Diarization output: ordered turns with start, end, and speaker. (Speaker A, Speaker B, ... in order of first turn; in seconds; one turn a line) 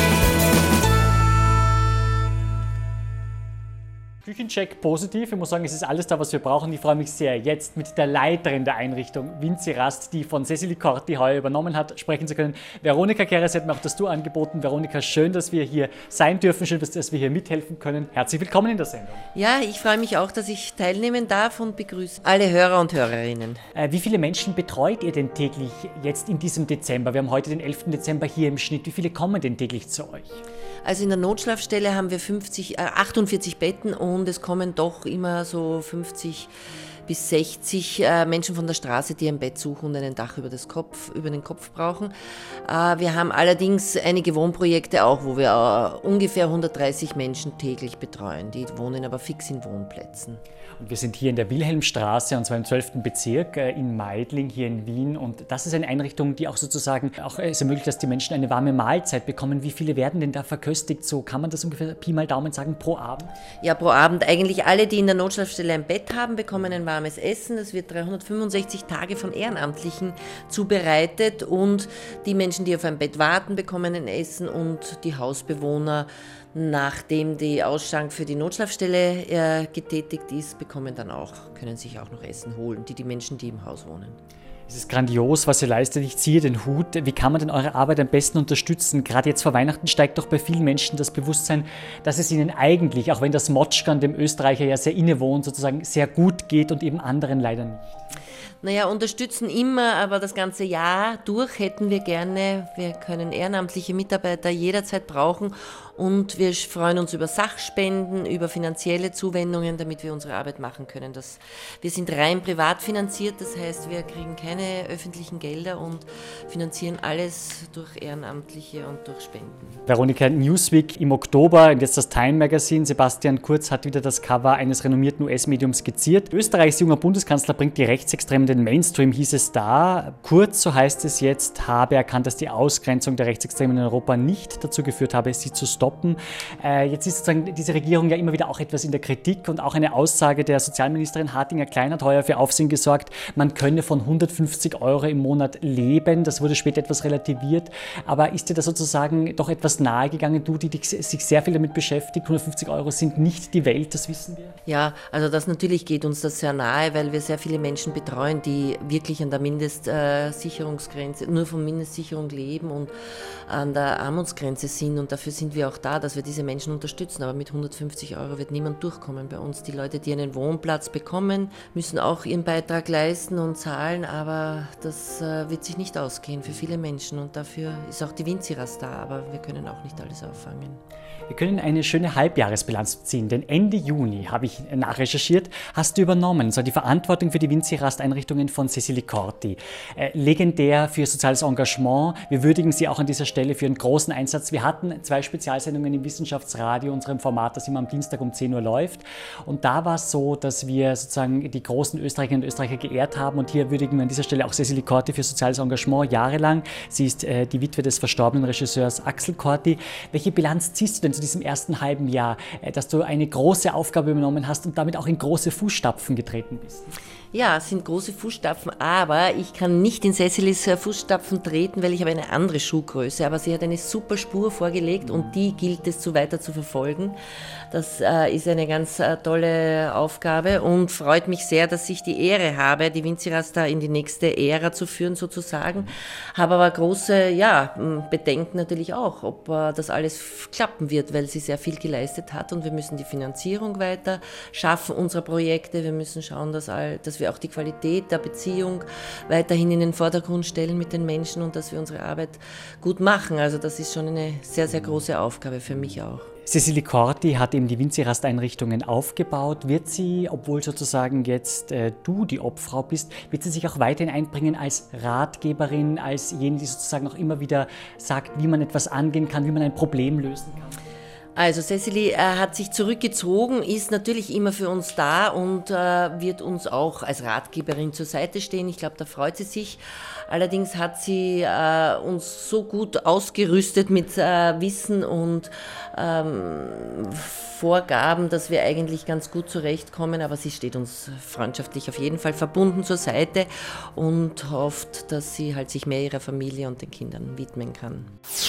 Speaker A: 4.2-19.2
Speaker B: 19.3-23.6
Speaker A: 23.7-30.4
Speaker B: 30.8-36.5
Speaker B: 37.1-42.1
Speaker B: 42.6-50.4
Speaker A: 50.8-63.3
Speaker B: 63.6-84.2
Speaker A: 84.7-98.0
Speaker B: 98.6-119.8
Speaker A: 119.9-154.6
Speaker B: 154.7-162.9
Speaker B: 163.5-180.8
Speaker A: 181.3-216.9
Speaker B: 217.3-227.2
Speaker B: 227.7-256.3
Speaker A: 256.4-270.8
Speaker B: 271.4-298.1